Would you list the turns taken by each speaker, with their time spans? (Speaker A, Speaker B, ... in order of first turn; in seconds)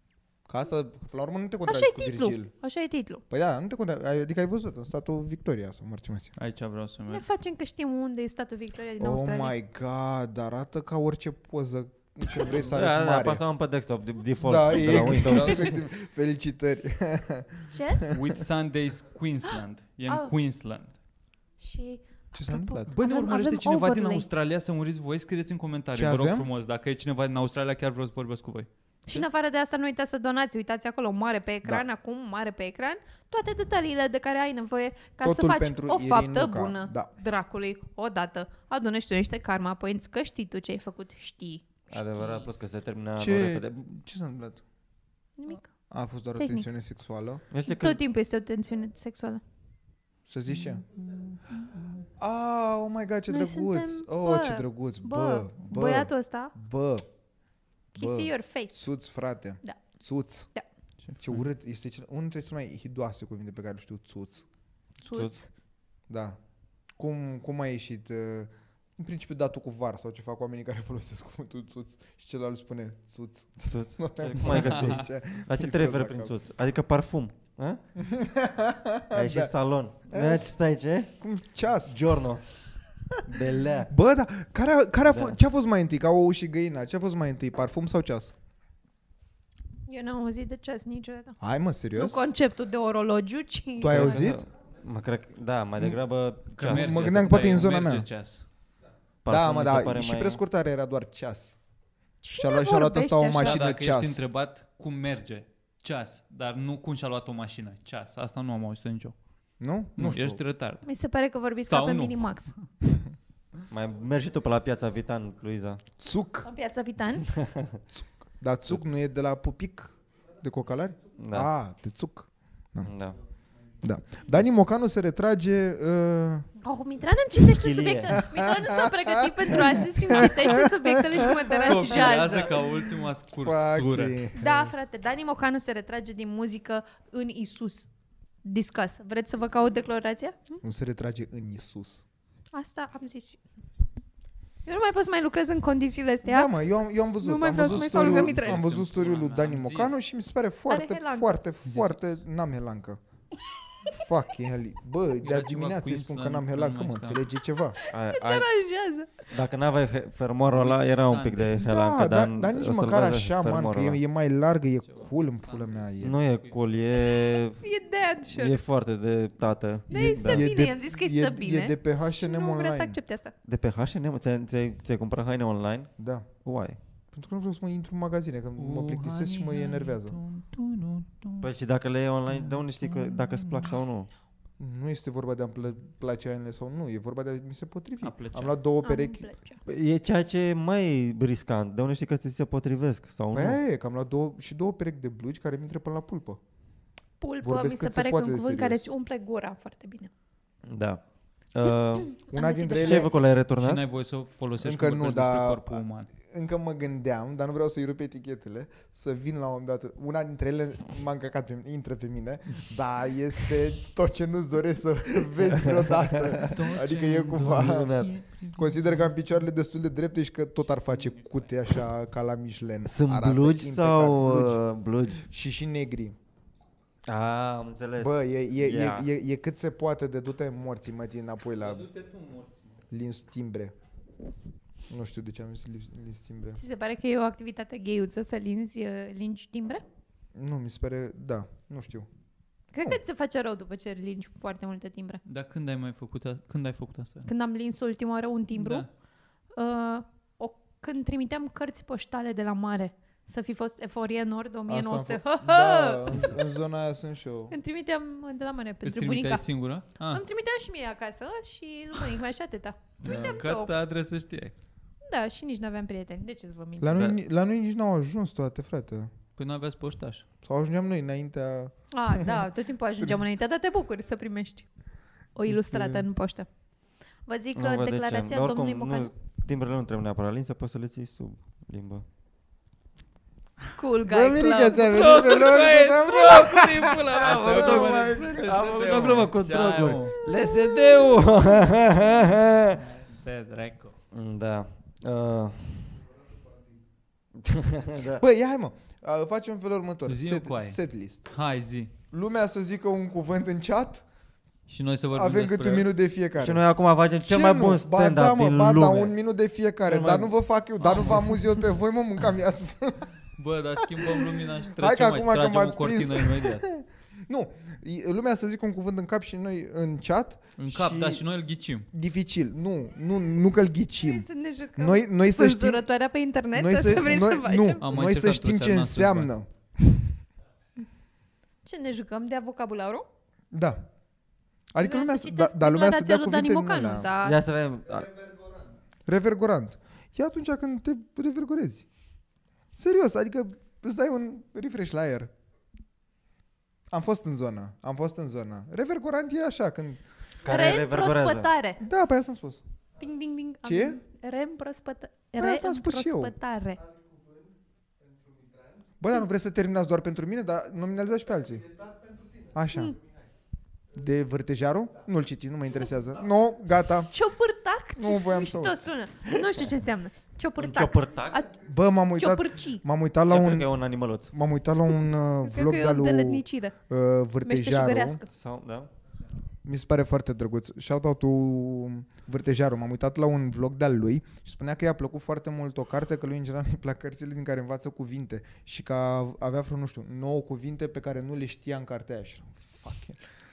Speaker A: 0.5-2.5, 3.3-6.3, 9.0-13.4, 14.4-18.4, 22.3-22.9, 25.9-26.5, 35.2-37.1, 43.2-44.6, 45.9-47.4, 50.3-50.8, 52.2-57.0, 57.9-60.5, 61.2-64.5, 66.1-66.4, 67.0-76.3, 78.0-79.5, 80.0-80.5, 81.2-82.2, 83.8-88.3, 91.4-92.2, 93.8-94.4, 96.6-98.1, 99.3-101.5, 102.3-104.2, 109.6-110.4, 116.0-116.5, 117.9-122.9, 123.8-126.5, 128.2-132.8, 133.4-134.7, 140.6-142.0, 146.2-153.0, 153.9-157.8, 161.6-166.2, 169.9-173.0, 176.0-176.3, 177.1-180.2, 184.6-189.2, 193.3-196.4, 197.4-198.8, 202.3-203.1, 204.6-224.6, 225.2-226.2, 228.0-231.9, 232.9-233.7, 234.9-236.6, 240.3-242.1, 254.7-257.5, 263.0-263.4, 266.8-269.1, 270.4-272.4, 275.5-276.1, 284.1-288.3, 298.2-301.3, 302.1-304.0, 305.1-306.6, 307.2-313.1, 313.8-321.2, 321.9-325.9, 326.5-330.1, 333.5-333.8, 334.7-337.1, 339.1-341.8, 342.8-345.3, 346.9-350.0, 351.8-352.6, 353.6-354.0, 355.4-356.3, 359.0-361.8, 362.5-363.0, 363.9-367.1, 367.9-368.8, 371.5-378.2, 379.6-393.2
Speaker B: 1.6-3.2, 7.1-9.5, 17.7-18.0, 21.6-24.2, 29.1-42.5, 45.4-45.7, 46.4-46.7, 47.6-49.4, 53.3-56.5, 57.9-58.9, 65.0-65.5, 89.9-91.4, 91.9-94.3, 102.2-103.6, 110.8-112.5, 116.4-117.3, 126.6-132.6, 134.3-137.9, 138.4-140.6, 142.5-143.4, 144.6-146.5, 147.2-148.6, 150.7-151.3, 157.8-159.3, 167.0-168.6, 169.9-173.3, 188.8-189.6, 197.2-200.1, 202.2-203.1, 236.6-239.8, 242.7-245.2, 247.2-248.9, 249.5-256.3, 257.5-259.4, 260.1-263.7, 265.0-267.1, 271.9-274.7, 275.3-276.5, 277.3-279.1, 283.7-288.1, 324.0-327.8, 331.6-333.1, 334.8-337.4, 350.4-351.8, 353.0-356.8, 367.1-371.6, 372.1-372.8, 375.4-376.7, 377.4-378.3
Speaker C: 6.4-7.2, 14.8-15.7, 18.1-20.9, 22.9-29.2, 51.6-51.9, 61.0-61.4, 96.5-98.4, 103.3-109.1, 110.0-110.8, 111.6-112.4, 131.5-134.2, 147.7-150.0, 151.7-152.0, 155.2-157.2, 160.5-161.7, 164.8-166.9, 178.6-181.5, 182.3-183.8, 188.0-188.6, 203.5-206.1, 216.4-219.0, 220.9-221.3, 231.6-232.7, 245.2-247.3, 248.6-248.9, 258.8-260.2, 263.0-264.5, 269.4-270.2, 284.9-286.6, 287.1-290.2, 292.9-293.9, 300.1-301.9, 304.7-305.9, 309.9-311.5, 313.4-316.6, 320.6-321.9, 327.8-329.3
Speaker D: 12.5-15.8, 41.9-43.8, 47.5-48.0, 65.1-65.4, 73.6-77.8, 79.1-81.1, 81.8-82.6, 83.2-83.9, 93.9-97.6, 99.2-100.4, 113.7-115.8, 117.4-117.8, 121.2-121.5, 122.8-123.2, 127.4-128.2, 157.9-158.5, 159.3-164.0, 166.0-167.6, 168.3-170.4, 173.4-175.9, 176.4-176.8, 181.4-184.1, 189.7-193.6, 200.7-201.0, 201.5-202.2, 202.7-203.8, 217.6-218.1, 222.8-225.2, 227.1-229.1, 277.6-282.0, 287.2-292.8, 294.1-296.0, 297.4-298.2, 306.4-309.1, 337.2-338.2, 350.4-351.5, 370.6-371.4, 373.2-374.3, 378.3-378.9